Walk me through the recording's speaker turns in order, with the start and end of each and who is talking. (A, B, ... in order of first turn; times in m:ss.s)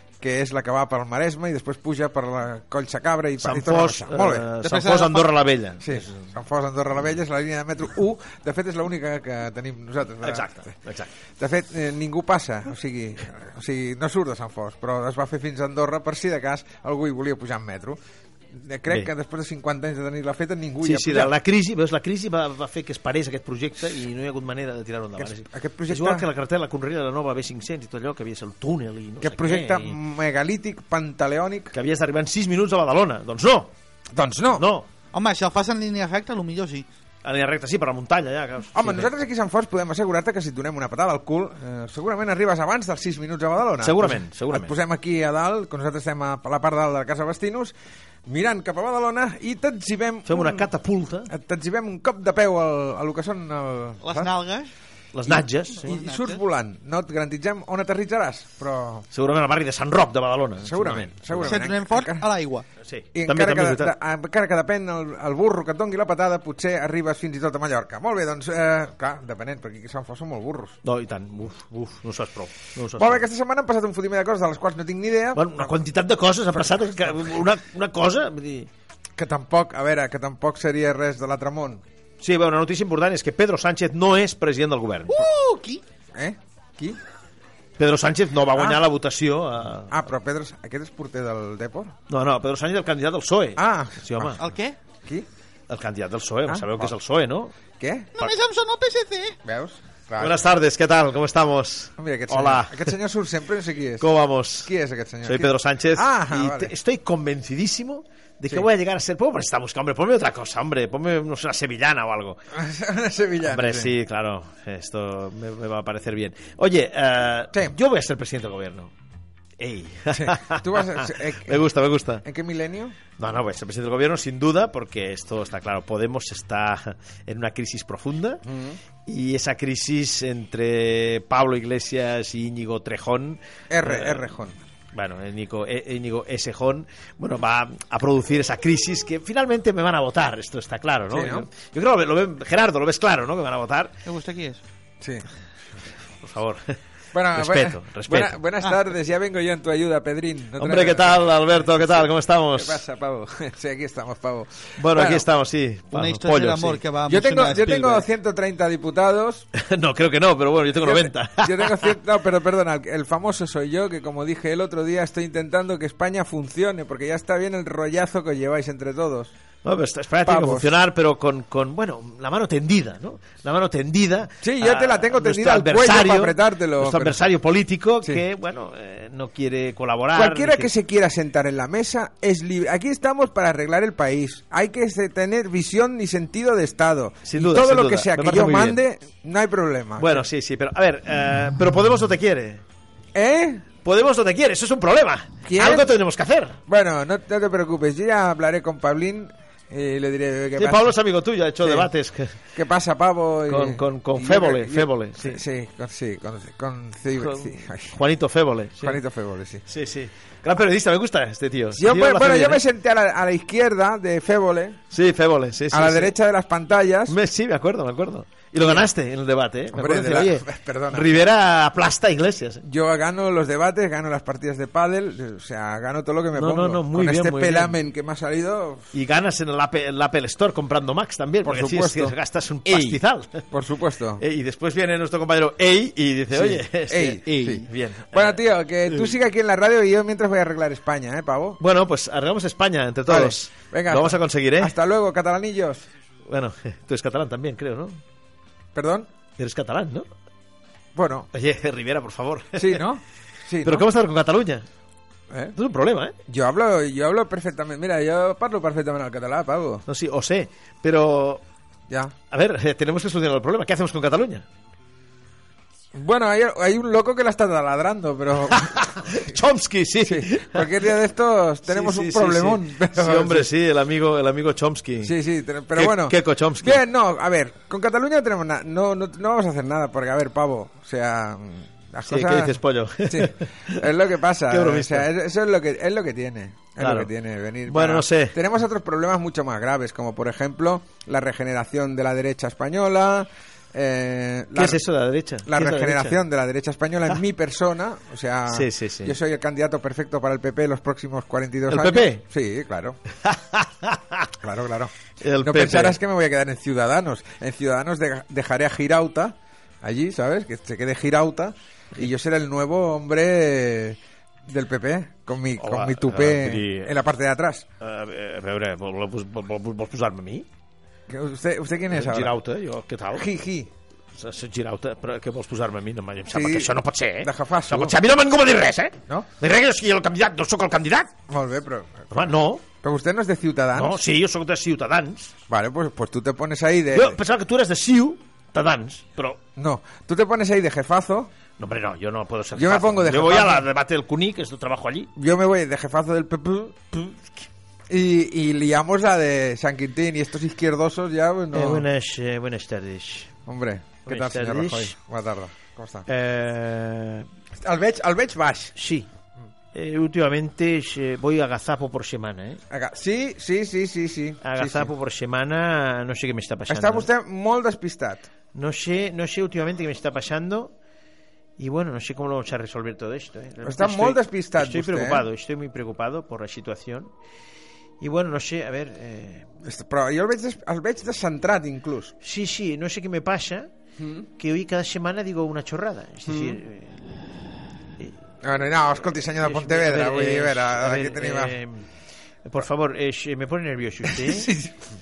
0:00.2-0:04.5 A
0:03.4-0:06.3 B
0:04.6-0:05.3 C
0:05.8-0:10.8 A
0:10.2-0:11.1 B
0:11.4-0:18.0 A
0:18.5-0:21.3 A
0:20.8-0:30.0 B
0:25.2-0:26.3 A
0:29.2-0:31.7 A
0:31.7-0:33.7 B
0:34.1-0:34.6 A
0:34.6-0:34.9 B
0:35.1-0:36.8 C
0:37.2-0:39.1 B
0:38.7-0:47.7 A
0:43.8-0:44.8 B
0:48.2-0:50.7 A
0:50.2-0:51.3 B
0:51.3-0:54.3 A
0:54.0-0:54.7 C
0:55.1-0:55.9 B
0:55.3-0:59.0 A
0:55.8-0:56.4 C
0:59.1-1:01.6 B
1:00.6-1:02.3 A
1:01.4-1:02.6 C
1:02.8-1:03.9 B
1:03.1-1:10.8 A
1:10.8-1:13.2 B
1:12.9-1:15.7 A
1:15.3-1:18.7 B
1:16.5-1:17.2 A
1:19.2-1:21.8 A
1:22.2-1:25.2 B
1:25.1-1:25.8 C
1:26.1-1:27.0 A
1:27.8-1:30.0 B
1:28.5-1:28.8 A
1:29.9-1:32.0 A
1:32.1-1:34.4 B
1:33.6-1:34.4 A
1:34.4-1:34.8 C
1:35.7-1:37.5 B
1:36.4-1:36.9 A
1:37.8-1:38.2 A
1:38.2-1:39.4 C
1:39.4-1:40.4 A
1:40.2-1:42.9 B
1:42.0-1:44.1 A
1:44.0-1:44.7 B
1:44.6-1:46.7 A
1:45.2-1:52.4 B
1:52.5-1:53.9 A
1:53.4-1:58.9 B
1:59.6-2:02.2 B
2:00.1-2:01.7 A
2:02.2-2:03.0 A
2:03.2-2:08.4 B
2:08.4-2:08.8 A
2:09.0-2:14.2 B
2:13.7-2:14.6 A
2:14.9-2:23.9 B
2:21.1-2:21.5 A
2:24.0-2:24.6 C
2:26.2-2:26.8 B
2:27.1-2:35.2 A
2:27.3-2:28.4 B
2:30.6-2:32.8 B
2:34.8-2:36.8 B
2:35.9-2:38.1 C
2:37.1-2:39.5 A
2:39.5-2:42.0 B
2:40.8-2:49.3 A
2:49.6-3:00.7 B
2:50.2-2:50.7 A
2:54.4-2:57.2 A
3:00.1-3:10.2 A
3:07.2-3:08.8 B
3:10.0-3:12.6 B
3:13.1-3:13.6 A
3:13.8-3:16.6 B
3:15.4-3:16.0 A
3:16.7-3:20.9 A
3:20.6-3:22.4 B
3:21.6-3:21.9 A
3:22.5-3:28.0 A
3:23.5-3:25.4 B
3:27.2-3:29.0 B
3:28.8-3:29.6 A
3:29.6-3:32.6 B
3:31.7-3:34.8 A
3:34.9-3:36.1 B
3:35.7-3:37.2 A
3:37.1-3:42.6 B
3:38.6-3:38.9 A
3:39.7-3:41.2 A
3:42.6-3:48.9 A
3:46.4-3:47.8 B
3:48.9-3:53.4 B
3:51.4-3:54.2 A
3:54.2-3:59.1 B
3:56.3-4:01.6 A
3:57.3-3:57.6 C
4:01.6-4:04.7 B
4:03.1-4:05.9 A
4:06.3-4:08.0 B
4:08.7-4:09.1 A
4:09.4-4:10.1 B
4:10.9-4:11.3 A
4:11.3-4:12.8 B
4:12.6-4:13.8 A
4:13.6-4:14.7 B
4:15.5-4:16.1 B
4:16.3-4:19.8 A
4:19.8-4:21.4 B
4:21.9-4:22.1 A
4:22.3-4:24.4 B
4:25.9-4:29.3 A
4:28.5-4:30.9 B
4:30.0-4:33.5 A
4:31.6-4:35.2 B
4:35.0-4:54.8 A
4:35.7-4:36.8 B
4:42.1-4:43.9 B
4:44.5-4:45.1 B
4:46.8-4:47.1 B
4:47.6-4:48.4 B
4:54.5-4:56.2 B
4:55.4-5:03.0 A
4:58.5-4:59.2 B
5:01.7-5:02.2 B
5:03.2-5:04.3 B
5:04.4-5:17.6 A
5:05.2-5:06.0 B
5:15.6-5:17.0 B
5:17.8-5:20.5 B
5:21.1-5:22.3 A
5:21.9-5:23.3 B
5:23.1-5:23.7 A
5:24.2-5:31.1 B
5:26.3-5:28.0 A
5:31.3-5:34.0 A
5:32.1-5:32.6 B
5:33.8-5:35.3 B
5:35.5-5:37.2 A
5:36.9-5:39.4 B
5:39.6-5:41.3 A
5:41.6-5:45.1 B
5:42.5-5:43.7 A
5:45.2-5:51.9 A
5:51.5-5:53.3 B
5:53.4-5:56.1 A
5:54.0-5:54.9 B
5:56.1-5:57.3 B
5:57.6-5:58.7 A
5:58.7-5:59.1 B
5:59.7-6:02.6 B
6:02.7-6:04.9 A
6:04.4-6:07.1 B
6:06.7-6:08.3 A
6:08.5-6:10.7 B
6:11.6-6:17.1 B
6:13.6-6:15.3 A
6:18.0-6:19.5 B
6:19.6-6:22.1 A
6:22.2-6:23.7 B
6:24.0-6:24.3 A
6:24.4-6:27.0 B
6:26.3-6:26.6 A
6:28.4-6:31.6 A
6:29.4-6:31.9 B
6:32.4-6:34.5 B
6:34.0-6:34.9 A